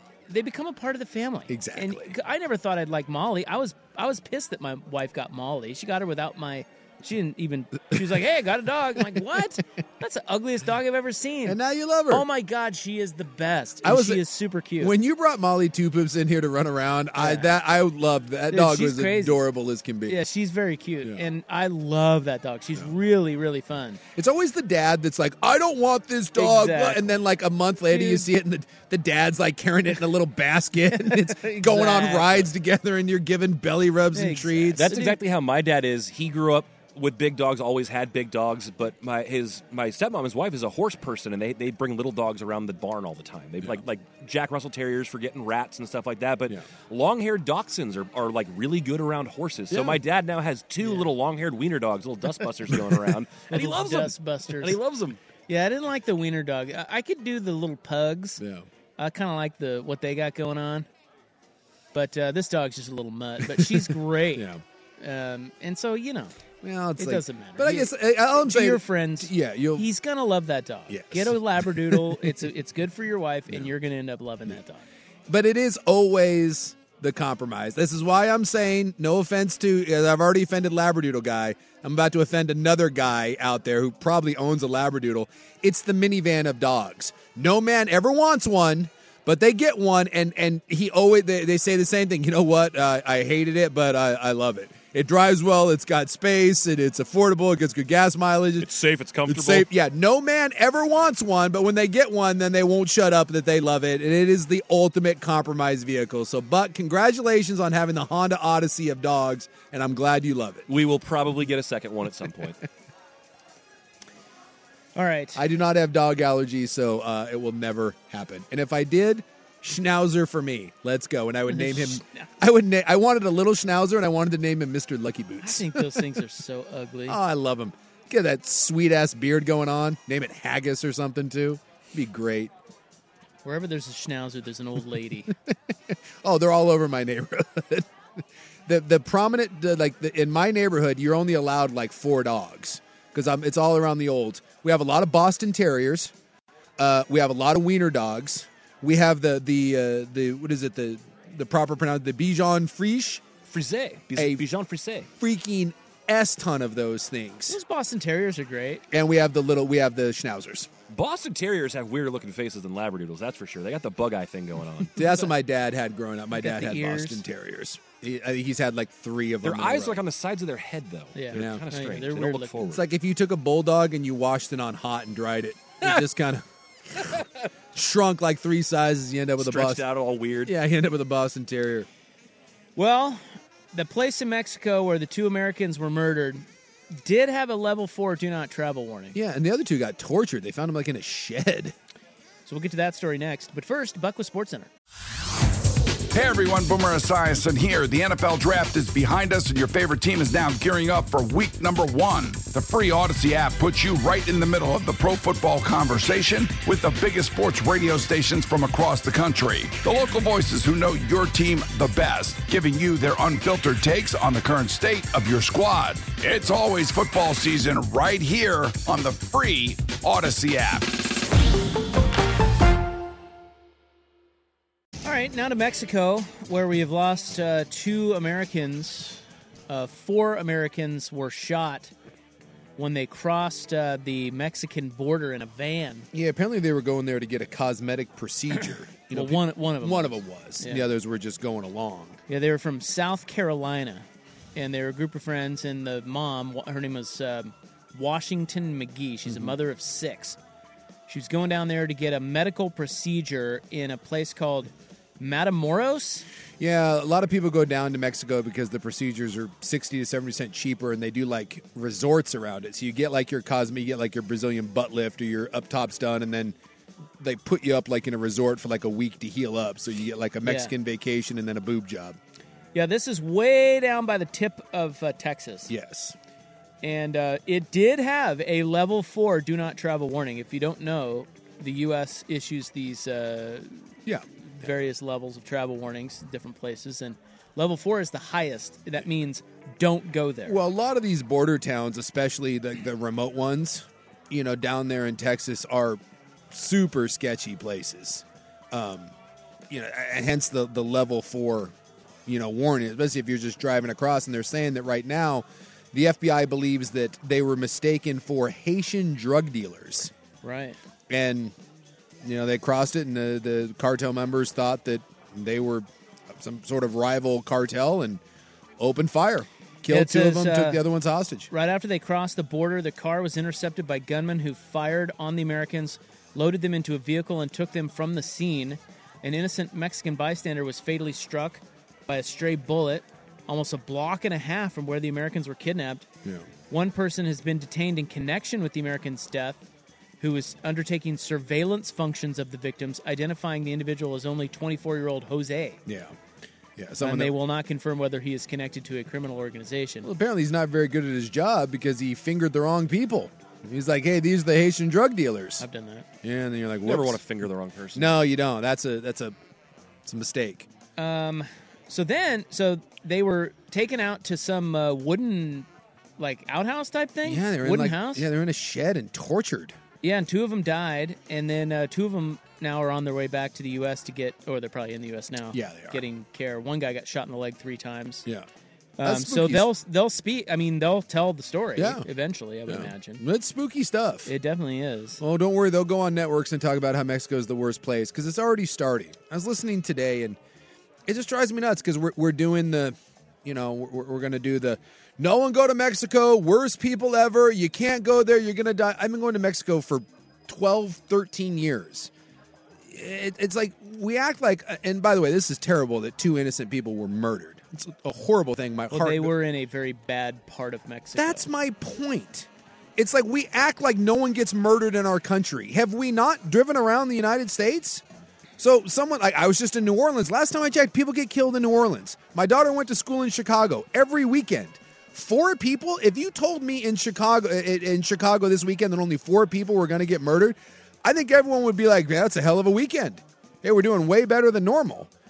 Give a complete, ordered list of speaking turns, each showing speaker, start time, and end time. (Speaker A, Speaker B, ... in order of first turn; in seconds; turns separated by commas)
Speaker A: 0.3-14.9, Speaker B: 1.5-2.1, Speaker B: 11.4-12.2, Speaker B: 13.8-14.2, Speaker B: 14.8-20.2, Speaker A: 17.2-17.5, Speaker A: 18.5-19.4, Speaker A: 20.1-24.0, Speaker B: 21.0-21.3, Speaker B: 24.1-34.9, Speaker A: 26.4-27.1, Speaker A: 27.9-28.3, Speaker A: 30.9-32.5, Speaker A: 34.1-35.2, Speaker C: 34.8-55.2, Speaker B: 49.7-50.0, Speaker A: 53.5-54.8, Speaker A: 55.5-58.4, Speaker B: 58.4-58.6, Speaker A: 59.0-60.9, Speaker A: 61.9-66.3, Speaker B: 63.4-64.6, Speaker B: 66.6-69.9, Speaker A: 67.0-74.9, Speaker B: 70.9-72.4, Speaker B: 75.3-98.7, Speaker C: 98.6-99.7, Speaker B: 99.3-110.7, Speaker C: 110.7-112.6, Speaker A: 115.0-115.4, Speaker B: 115.3-126.2, Speaker A: 121.5-122.3, Speaker A: 125.4-127.2, Speaker B: 127.1-132.5, Speaker A: 133.4-135.3, Speaker B: 135.3-146.1, Speaker B: 146.8-153.2, Speaker C: 153.5-155.1, Speaker B: 154.1-154.4, Speaker B: 155.2-157.6, Speaker A: 157.5-158.8, Speaker B: 158.9-160.7, Speaker C: 160.9-165.1, Speaker B: 164.9-170.0, Speaker A: 166.3-167.2, Speaker C: 169.4-172.8, Speaker A: 171.2-172.6, Speaker B: 171.3-171.6, Speaker B: 172.7-177.2, Speaker B: 177.8-179.8, Speaker C: 179.4-180.5, Speaker B: 180.4-181.9, Speaker A: 182.8-189.2, Speaker B: 189.1-191.7, Speaker A: 192.5-194.7, Speaker D: 196.1-220.9, Speaker A: 225.0-231.9, Speaker A: 232.8-236.1, Speaker B: 236.1-242.2, Speaker A: 239.1-240.8, Speaker A: 242.3-250.4, Speaker B: 249.2-249.5, Speaker A: 251.1-256.2, Speaker B: 256.6-266.6, Speaker B: 267.2-272.2, Speaker A: 270.4-270.7, Speaker A: 272.7-275.7, Speaker B: 275.7-276.2, Speaker A: 276.8-284.0, Speaker B: 284.1-284.7, Speaker A: 284.5-290.6, Speaker B: 290.4-299.1, Speaker B: 299.7-301.8, Speaker B: 302.2-310.1, Speaker A: 310.4-310.8, Speaker B: 311.1-311.5, Speaker B: 312.2-318.2, Speaker B: 318.8-321.5, Speaker A: 319.9-320.8, Speaker A: 321.5-336.1, Speaker B: 336.2-336.5, Speaker A: 336.7-339.6, Speaker A: 340.2-345.8, Speaker B: 345.9-346.2, Speaker B: 346.8-347.3, Speaker A: 347.0-350.1, Speaker B: 350.0-355.6, Speaker A: 355.6-356.1, Speaker B: 356.2-357.2, Speaker C: 356.8-358.2, Speaker B: 357.9-359.4, Speaker B: 360.0-360.7, Speaker A: 361.0-365.7, Speaker A: 366.2-368.3, Speaker B: 367.2-369.8, Speaker A: 370.0-378.2, Speaker B: 375.5-376.0, Speaker A: 379.0-383.2, Speaker B: 379.0-379.7, Speaker B: 381.8-382.1, Speaker B: 382.7-384.3, Speaker A: 384.2-385.2, Speaker B: 385.2-390.4, Speaker B: 391.1-402.1, Speaker B: 402.9-409.3, Speaker A: 408.9-411.5, Speaker B: 411.2-418.0, Speaker B: 418.6-435.1